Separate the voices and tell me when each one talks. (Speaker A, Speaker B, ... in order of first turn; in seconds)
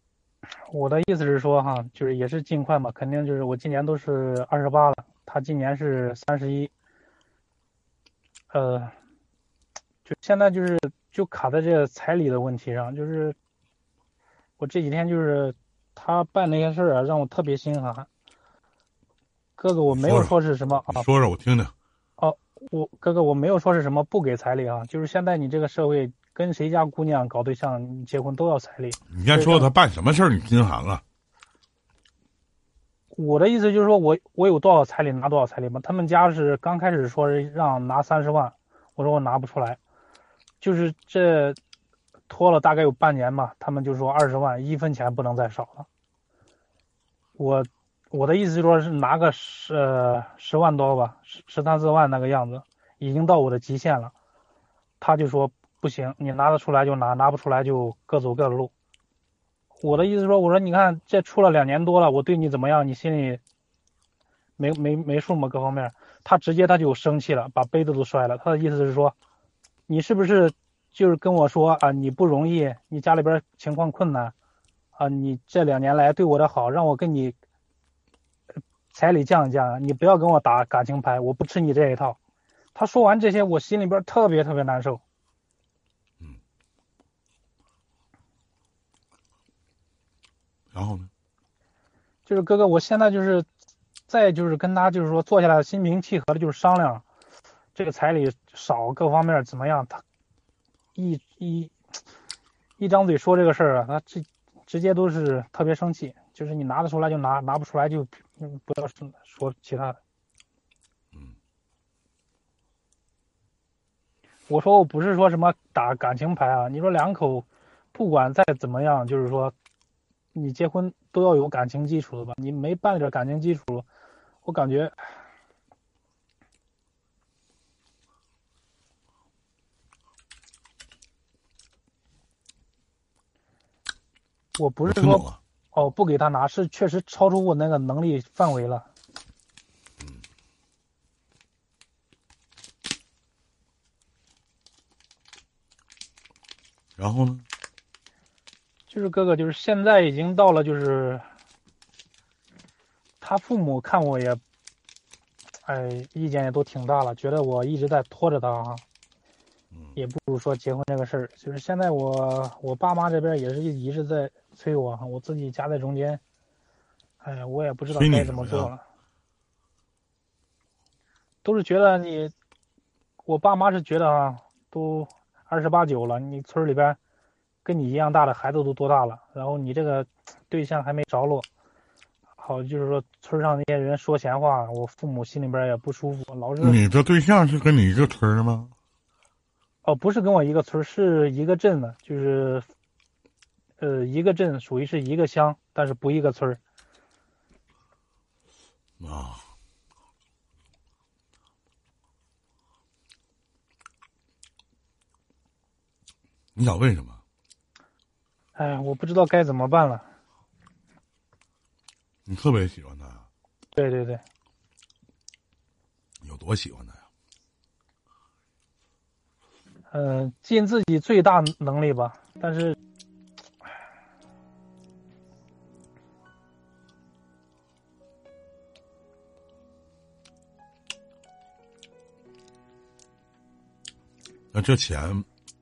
Speaker A: 0.6-6.7, 8.5-8.9, 10.1-13.4, 14.6-18.1, 19.6-21.1, 22.2-29.7, 33.1-39.8, 40.6-41.6, 42.3-45.9, 47.4-54.1, 55.0-58.7, 59.8-63.4, 64.6-69.1, 69.9-74.3, 75.0-77.4, 78.9-82.2, 82.8-85.0, 92.2-93.5, 94.1-97.0, 97.8-100.0, 101.0-101.8, 102.8-110.0, 114.5-119.5, 120.3-123.9, 124.4-125.1, 134.6-138.9, 148.9-151.2, 153.2-154.4, 155.6-158.8, 159.9-166.2, 167.2-168.8, 171.4-172.3, 173.2-177.0, 177.6-181.5, 182.4-186.8, 189.8-192.7, 193.8-196.6, 208.6-210.1, 213.8-214.2, 219.9-222.8
Speaker B: 19.9-20.3, 20.9-21.7, 29.1-31.0, 90.7-91.1, 134.9-135.4, 147.0-147.4, 167.9-168.7, 186.6-188.7, 199.0-199.4, 206.6-207.2, 212.3-213.2, 216.2-217.0, 234.5-235.2